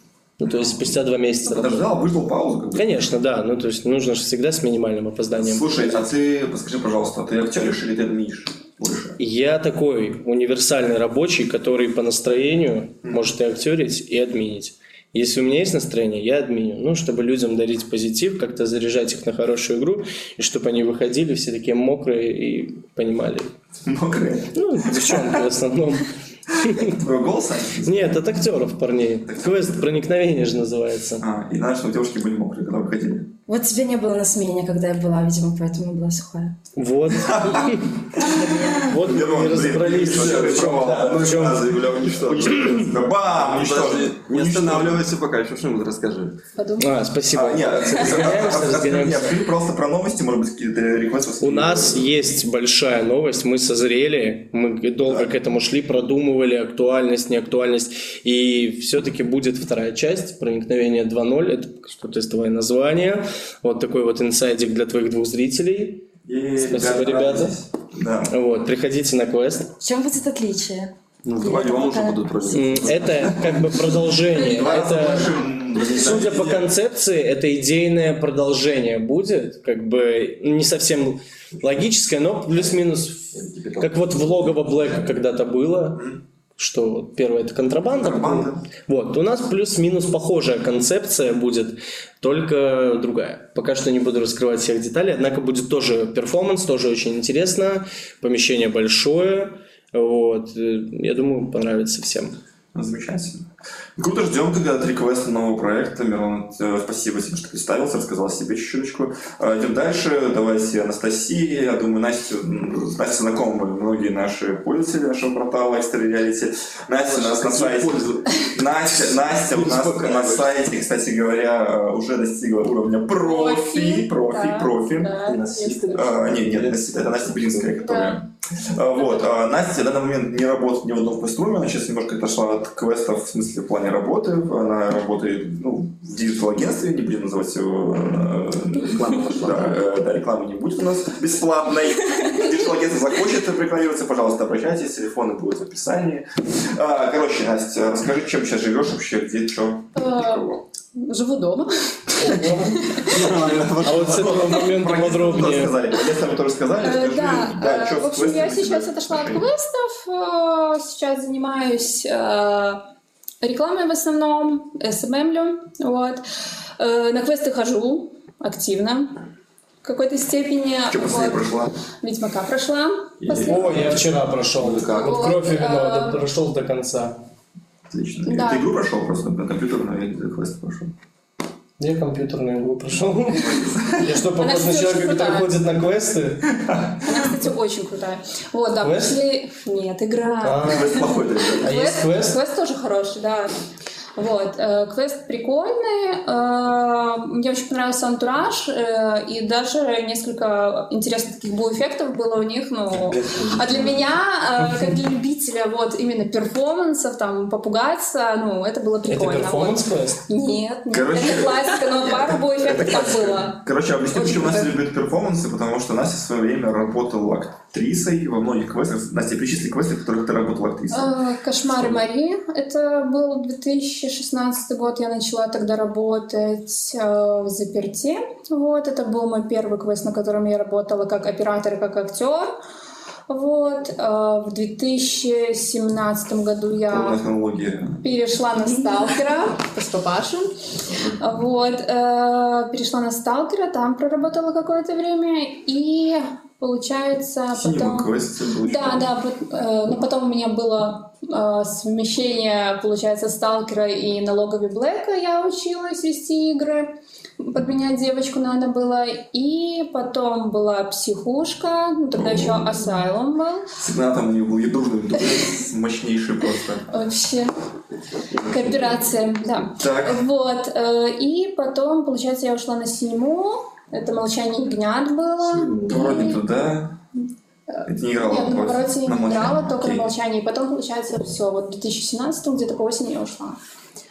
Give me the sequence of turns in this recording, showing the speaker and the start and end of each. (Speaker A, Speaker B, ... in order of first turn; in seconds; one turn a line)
Speaker A: 0.4-2.0
Speaker B: 0.5-0.9
Speaker B: 1.5-3.1
Speaker A: 2.8-6.0
Speaker B: 5.3-9.2
Speaker A: 9.2-23.5
Speaker B: 13.0-13.3
Speaker B: 23.8-25.4
Speaker A: 24.5-27.0
Speaker B: 26.7-28.6
Speaker A: 27.9-31.2
Speaker B: 29.2-30.1
Speaker B: 31.2-33.3
Speaker C: 33.5-36.5
Speaker A: 36.8-41.6
Speaker B: 37.2-45.1
Speaker D: 39.5-46.4
Speaker E: 46.6-47.0
Speaker A: 46.8-49.3
Speaker B: 47.3-52.1
Speaker A: 51.4-66.0
Speaker B: 66.2-68.3
Speaker A: 66.6-67.5
Speaker A: 68.3-69.7
Speaker C: 69.8-73.0
Speaker D: 71.2-73.6
Speaker A: 72.5-102.3
Speaker B: 74.3-76.5
Speaker D: 75.8-76.7
Speaker D: 83.3-85.1
Speaker B: 86.0-86.2
Speaker B: 87.9-88.7
Speaker B: 102.7-103.5
Speaker B: 104.0-125.2
Speaker D: 117.0-120.5
Speaker E: 123.2-126.1
Speaker D: 125.2-127.8
Speaker B: 125.9-150.6
Speaker E: 127.8-128.2
Speaker E: 128.9-129.2
Speaker D: 138.8-139.8
Speaker E: 149.9-153.4
Speaker A: 152.2-153.0
Speaker D: 153.0-154.5
Speaker B: 153.0-159.5
Speaker A: 153.8-155.7
Speaker E: 156.8-162.9
Speaker E: 163.4-166.2
Speaker E: 166.8-169.2
Speaker E: 169.8-171.5
Speaker B: 170.9-171.7
Speaker E: 172.0-173.8
Speaker D: 173.2-175.2
Speaker A: 173.3-177.2
Speaker E: 174.9-176.2
Speaker B: 177.9-180.9
Speaker E: 178.3-178.7
Speaker A: 181.8-186.5
Speaker B: 183.4-184.1
Speaker E: 184.4-185.5
Speaker B: 186.5-187.2
Speaker E: 187.0-193.5
Speaker A: 188.8-189.2
Speaker A: 190.4-192.4
Speaker B: 190.6-191.7
Speaker E: 194.2-214.7
Speaker D: 202.9-204.1
Speaker A: 209.1-210.2
Speaker B: 210.9-221.1
Speaker E: 220.9-232.6
Speaker B: 221.7-222.0
Speaker E: 233.3-237.2
Speaker B: 236.9-238.0
Speaker E: 238.0-240.5
Speaker C: 238.7-239.1
Speaker B: 240.9-241.2
Speaker E: 241.2-263.7
Speaker B: 247.5-249.1
Speaker B: 262.1-262.8
Speaker B: 263.8-266.9
Speaker E: 266.9-267.5
Speaker D: 268.3-269.0
Speaker E: 268.5-276.4
Speaker B: 269.8-270.2
Speaker B: 275.8-277.0
Speaker E: 277.7-283.6
Speaker B: 277.9-280.1